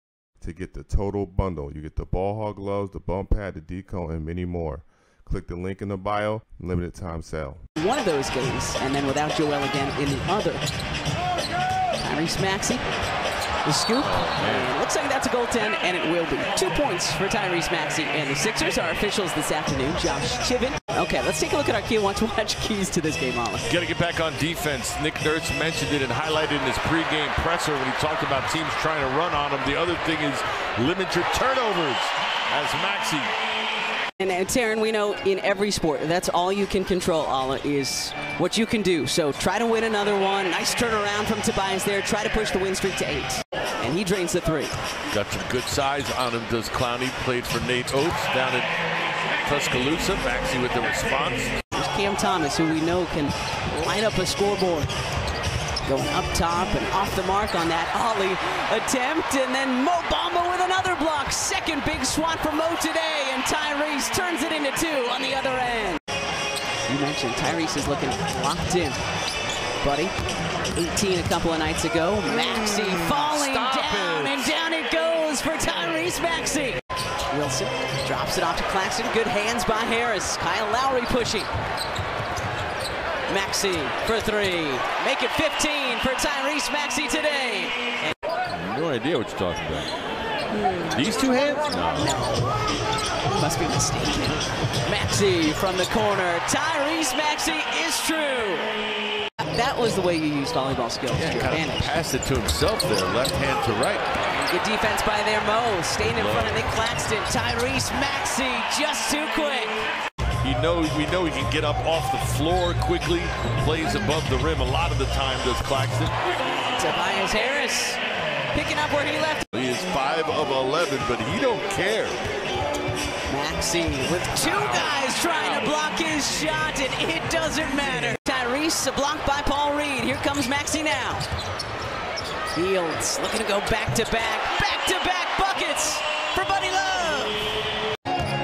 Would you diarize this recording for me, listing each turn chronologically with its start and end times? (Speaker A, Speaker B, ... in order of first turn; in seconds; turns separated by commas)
Speaker A: 0.4-7.6, Speaker B: 7.8-10.6, Speaker B: 12.0-12.8, Speaker B: 13.6-23.7, Speaker C: 14.0-14.7, Speaker C: 23.7-33.3, Speaker B: 34.2-44.7, Speaker C: 45.1-48.7, Speaker C: 49.4-51.5, Speaker B: 51.7-54.9, Speaker B: 55.9-66.0, Speaker B: 66.9-69.0, Speaker B: 69.8-70.1, Speaker B: 70.7-76.8, Speaker C: 72.9-74.5, Speaker B: 77.3-81.5, Speaker B: 83.3-88.1, Speaker C: 88.5-89.9, Speaker B: 90.6-90.9, Speaker C: 90.9-92.1, Speaker B: 91.9-92.6, Speaker B: 93.3-98.7, Speaker B: 99.5-102.0, Speaker C: 101.1-104.0, Speaker B: 104.3-109.8, Speaker C: 106.0-106.7, Speaker C: 110.4-116.1, Speaker B: 116.8-118.0, Speaker B: 118.5-119.5, Speaker C: 119.5-122.2, Speaker B: 123.3-131.2, Speaker C: 124.4-125.7, Speaker B: 132.5-137.4